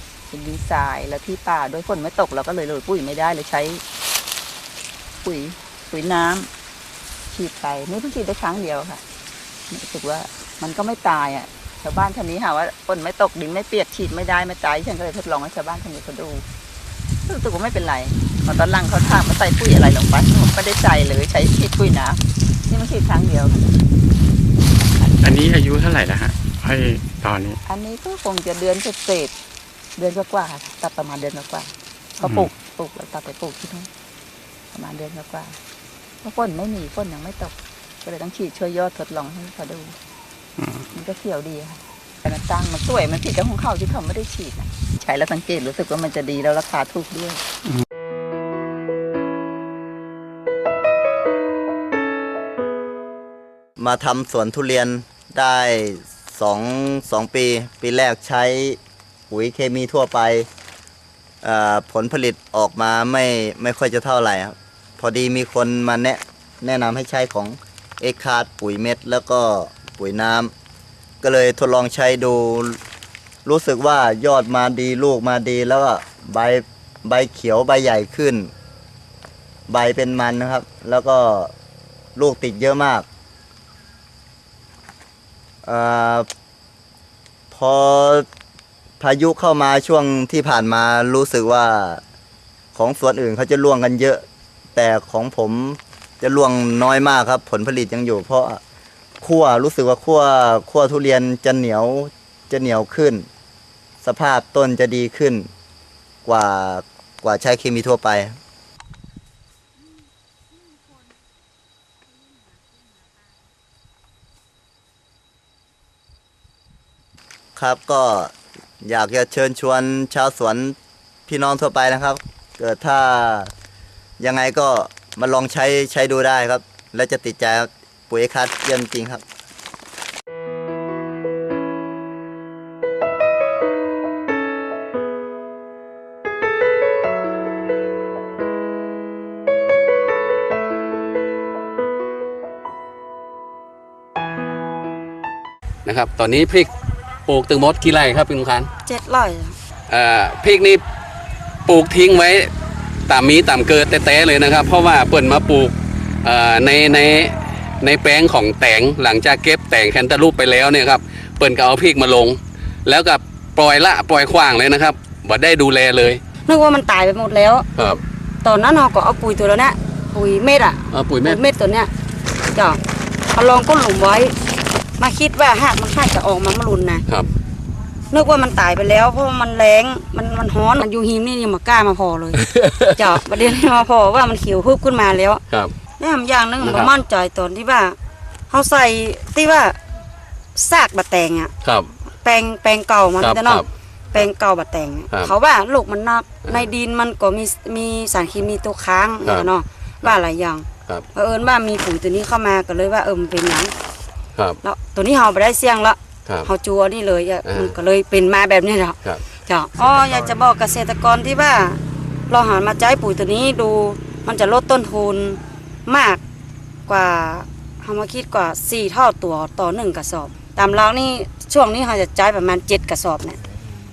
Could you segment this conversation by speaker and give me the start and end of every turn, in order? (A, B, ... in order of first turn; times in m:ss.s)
0:00.3-0:03.8 A
0:05.2-0:06.5 A
0:07.3-0:09.0 A
0:09.7-0:16.4 A
0:17.3-0:22.2 A
0:22.7-0:23.8 A
0:25.2-0:27.6 B
0:27.7-0:29.3 A
0:30.0-0:33.9 A
0:32.2-0:32.5 B
0:34.7-0:35.5 A
0:36.2-0:37.5 A
0:38.0-0:39.9 A
0:41.0-0:47.4 A
0:53.8-0:58.8 C
0:59.3-1:00.5 C
1:01.4-1:10.5 C
1:11.2-1:12.8 C
1:13.4-1:18.5 C
1:19.7-1:21.5 C
1:22.2-1:23.0 C
1:25.6-1:26.3 C
1:27.5-1:28.2 C
1:29.0-1:32.0 C
1:32.7-1:34.2 C
1:34.7-1:38.6 C
1:39.2-1:43.3 C
1:44.0-1:45.5 C
1:46.2-1:48.4 C
1:57.6-2:00.8 C
2:01.3-2:03.5 C
2:04.2-2:09.2 C
2:25.8-2:26.7 D
2:27.3-2:28.7 D
2:28.8-2:29.6 E
2:29.9-2:30.8 D
2:31.7-2:32.5 D
2:33.1-2:46.2 D
2:46.4-2:47.6 E
2:47.8-2:48.0 D
2:48.4-2:51.9 E
2:50.9-2:51.4 D
2:52.5-2:52.8 E
2:53.3-2:54.3 E
2:55.0-2:57.0 E
2:58.1-3:02.4 E
3:02.4-3:03.2 D
3:03.0-3:05.4 E
3:06.0-3:08.0 E
3:06.6-3:06.9 D
3:08.5-3:09.8 E
3:10.6-3:11.5 E
3:11.6-3:11.9 D
3:12.2-3:23.7 E
3:13.2-3:13.7 D
3:16.4-3:16.7 D
3:19.2-3:20.2 D
3:24.6-3:31.8 E
3:27.4-3:27.7 D
3:32.3-3:36.2 E
3:36.9-3:43.4 E